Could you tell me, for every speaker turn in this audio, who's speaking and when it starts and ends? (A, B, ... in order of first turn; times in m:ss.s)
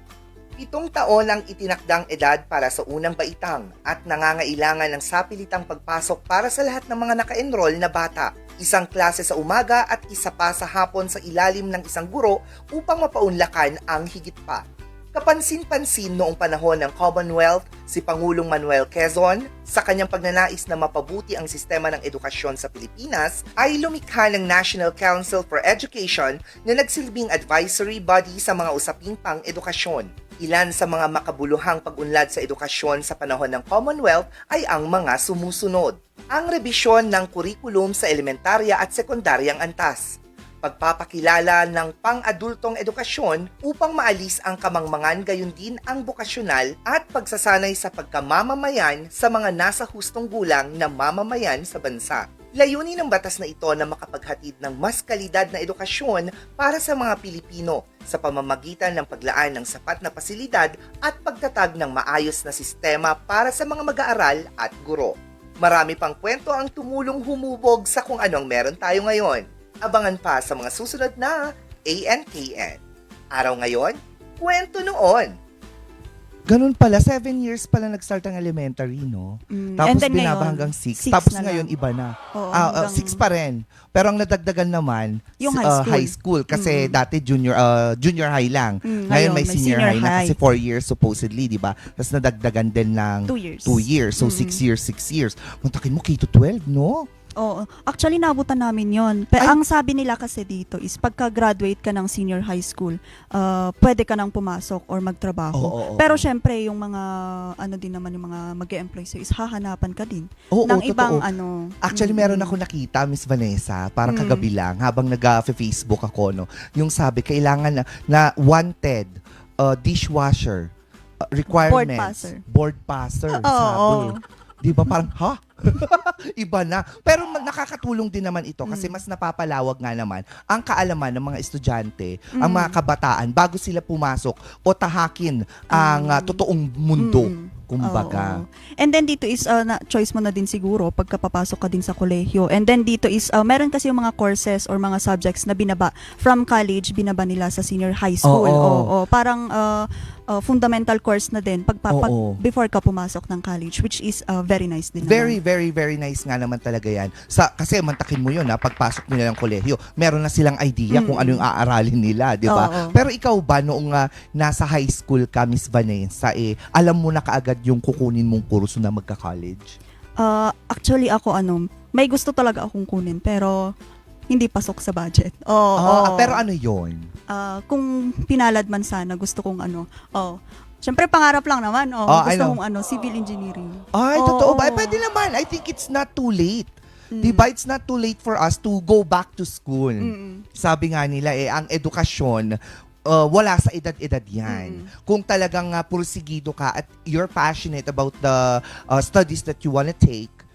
0:00.6-1:12.8 A
1:13.3-1:15.4 A
1:16.5-1:37.1 A
1:19.5-1:21.7 B
1:22.3-1:23.2 B
1:25.4-1:27.0 B
1:28.8-1:30.4 B
1:33.3-1:34.6 B
1:37.4-1:47.1 B
1:45.6-1:46.2 A
1:47.6-1:52.6 B
1:50.5-1:51.2 A
1:51.8-2:00.7 A
1:54.1-1:54.4 B
2:01.3-2:18.4 A
2:01.5-2:02.4 B
2:03.3-2:04.2 B
2:08.6-2:09.0 B
2:12.3-2:12.8 B
2:15.7-2:16.4 B
2:17.0-2:35.4 B
2:28.2-2:28.9 A
2:31.9-2:32.4 A
2:35.0-2:49.7 A
2:40.9-2:41.4 B
2:42.5-2:43.0 B
2:50.2-2:53.6 B
2:54.3-2:56.4 B
2:55.8-2:57.1 A
2:57.3-3:05.0 B
3:02.1-3:02.6 A
3:03.9-3:12.6 A
3:07.1-3:07.5 B
3:10.0-3:10.4 B
3:13.1-3:20.4 A
3:14.5-3:14.9 B